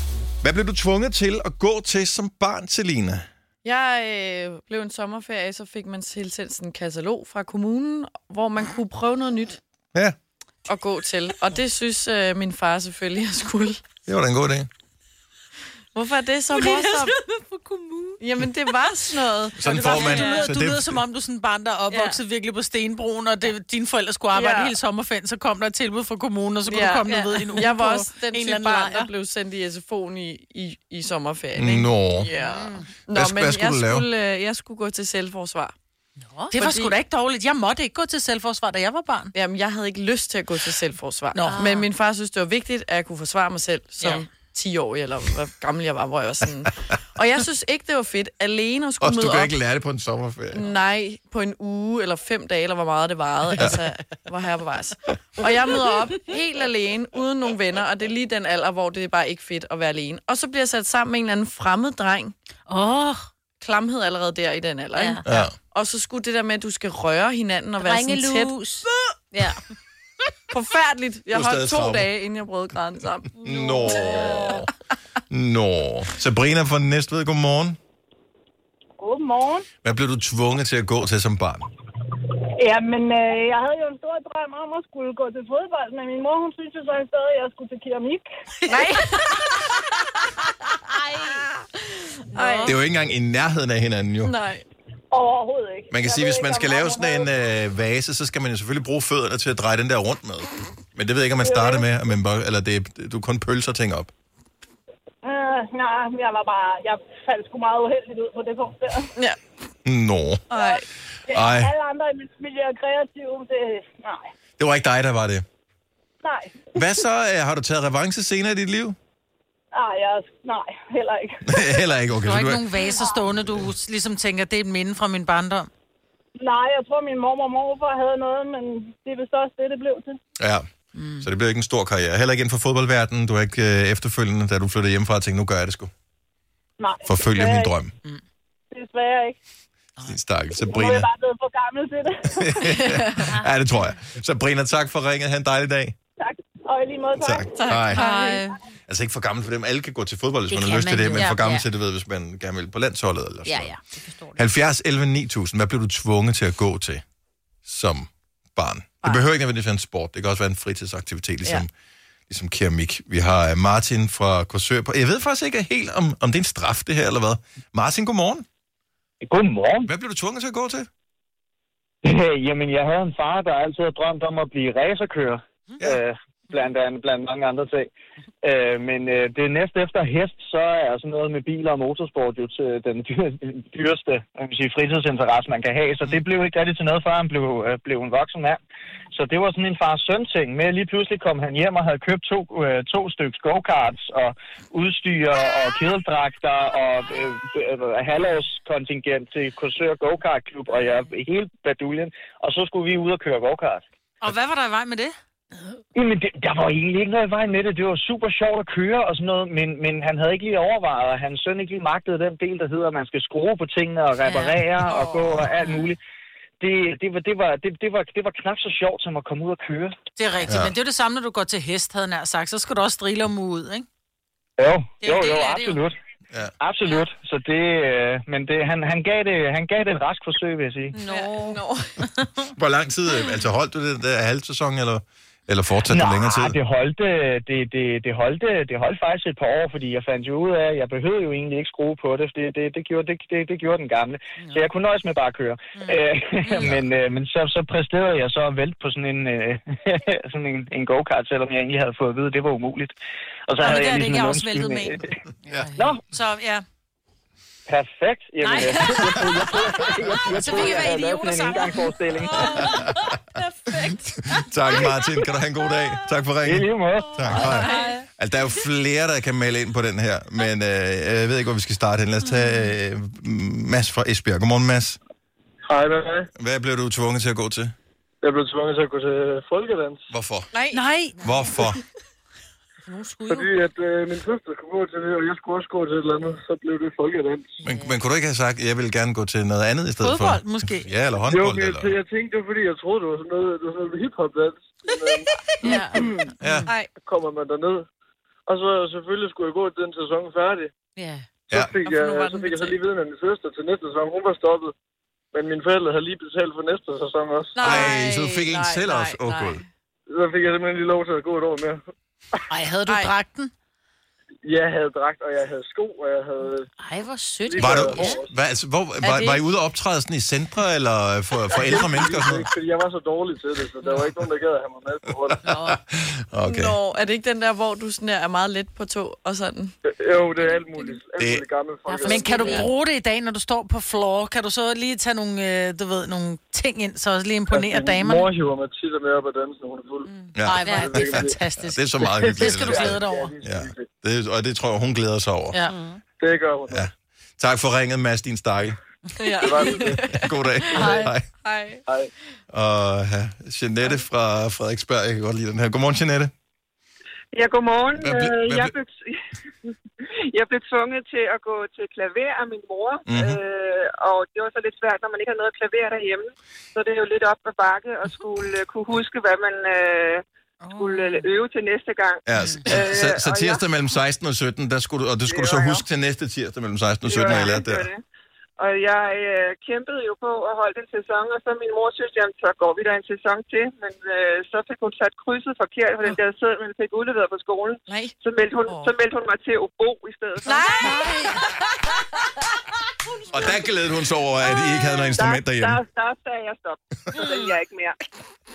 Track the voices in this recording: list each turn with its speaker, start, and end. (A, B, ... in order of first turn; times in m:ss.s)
0:00.4-0:03.3 A
0:03.6-0:09.6 B
0:10.7-0:13.8 B
0:14.1-0:14.7 A
0:16.0-0:17.2 B
0:16.6-0:18.1 C
0:18.2-0:20.4 B
0:19.6-0:21.0 A
0:19.6-0:29.1 C
0:21.9-0:22.2 B
0:24.3-0:24.7 B
0:26.7-0:35.7 B
0:31.6-0:32.3 A
0:32.4-0:32.8 C
0:33.1-0:34.1 A
0:36.4-0:39.3 C
0:36.5-0:37.0 B
0:39.3-0:49.5 B
0:41.4-0:41.7 C
0:41.5-0:41.9 D
0:49.0-0:50.6 A
0:50.5-1:02.4 B
1:02.7-1:03.2 C
1:03.6-1:08.5 B
1:05.2-1:05.5 A
1:07.8-1:09.6 D
1:10.5-1:13.3 B
1:11.3-1:12.1 A
1:13.4-1:14.7 A
1:13.8-1:14.6 B
1:15.3-1:17.8 A
1:19.0-1:19.7 D
1:19.8-1:21.7 A
1:22.6-1:28.2 D
1:28.7-1:29.8 B
1:32.3-1:32.8 B
1:32.4-1:32.7 C
1:32.6-1:34.3 A
1:34.2-1:34.6 B
1:35.1-1:37.3 D
1:35.9-1:44.1 A
1:41.4-1:41.8 D
1:45.2-1:49.1 D
1:49.8-1:50.4 A
1:50.5-1:50.8 B
1:50.5-1:54.3 D
1:51.3-1:51.7 A
1:54.6-1:55.4 A
1:56.2-1:56.6 D
1:56.8-1:59.0 A
1:59.7-2:01.8 D
2:01.4-2:02.6 A
2:02.2-2:05.7 C
2:03.3-2:03.7 A
2:06.4-2:10.2 D
2:10.4-2:10.7 A
2:10.9-2:11.3 C
2:11.2-2:15.9 A
2:16.8-2:17.7 D
2:17.0-2:17.9 A
2:18.7-2:19.4 D
2:20.0-2:21.1 A
2:20.6-2:22.6 D
2:22.3-2:26.0 A
2:22.9-2:23.3 B
2:26.2-2:28.4 D
2:27.2-2:28.1 A
2:27.6-2:27.9 B
2:27.9-2:28.6 C
2:28.9-2:33.8 A
2:30.5-2:31.6 D
2:33.4-2:34.4 D
2:34.4-2:37.0 A
2:37.6-2:41.7 A
2:42.3-2:48.4 A
2:49.2-2:49.9 E
2:49.9-2:50.9 A
2:52.0-2:57.9 E
2:58.4-3:08.6 E
3:09.1-3:23.8 E
3:24.2-3:25.2 C
3:26.0-3:36.0 E
3:34.2-3:35.8 C
3:36.6-3:39.9 E
3:40.2-3:43.9 C
3:40.5-3:40.8 A
3:44.6-3:46.0 E
3:45.0-3:45.8 C
3:46.6-3:51.0 E
3:51.1-3:52.0 B
3:51.1-3:51.6 C
3:52.5-3:56.6 A
3:55.9-4:13.0 E
4:05.8-4:06.7 C
4:13.5-4:15.1 E
4:13.6-4:16.6 C
4:15.8-4:16.0 E
4:17.7-4:22.4 E
4:18.4-4:19.5 C
4:20.3-4:22.9 C
4:22.4-4:22.9 A
4:23.9-4:35.0 A
4:26.4-4:27.6 E
4:27.3-4:27.8 C
4:27.6-4:27.9 B
4:35.7-4:36.3 F
4:36.4-4:37.7 A
4:38.2-4:40.0 F
4:40.1-4:40.5 A
4:40.5-4:40.8 B
4:40.7-4:41.3 C
4:41.2-4:41.8 A
4:42.9-4:43.5 C
4:43.3-4:47.6 F
4:47.6-4:48.0 C
4:47.6-4:51.9 A
4:50.0-4:50.9 C
4:51.3-4:56.1 F
4:55.6-4:56.7 C
4:55.6-4:56.0 B
4:56.4-4:56.7 A
4:57.0-4:57.9 F
4:58.5-5:00.7 F
5:01.0-5:01.3 C
5:01.5-5:04.7 F
5:01.8-5:02.8 B
5:05.3-5:07.8 F
5:07.6-5:09.6 B
5:07.6-5:09.6 A
5:10.1-5:11.8 F
5:12.5-5:13.5 C
5:12.9-5:13.1 B
5:14.4-5:16.7 F
5:16.8-5:18.1 C
5:17.4-5:18.3 F
5:17.6-5:22.5 A
5:21.6-5:25.6 F
5:25.5-5:26.8 A
5:26.4-5:29.8 B
5:29.8-5:32.7 F
5:31.2-5:31.4 A
5:32.0-5:38.3 C
5:37.5-5:40.1 F
5:40.3-5:43.3 C
5:40.4-5:45.6 A
5:40.7-5:41.4 F
5:42.5-5:43.9 F
5:45.5-5:45.8 C
5:46.2-5:46.9 F
5:46.7-5:48.8 A
5:49.2-5:51.8 B
5:49.4-5:50.1 F
5:50.1-5:51.3 A
5:50.7-5:51.1 F
5:52.5-5:56.3 A
5:57.3-5:59.1 G
5:58.0-5:58.7 A
6:00.3-6:10.2 G
6:03.1-6:03.4 A
6:10.6-6:11.3 C
6:10.8-6:13.6 G
6:12.3-6:17.9 A
6:15.3-6:15.8 G
6:17.1-6:18.0 G
6:18.6-6:31.1 G
6:27.9-6:28.1 B
6:28.7-6:28.9 B
6:30.5-6:31.4 B
6:30.5-6:31.3 C
6:30.9-6:31.3 D
6:33.3-6:35.8 A
6:34.4-6:38.0 G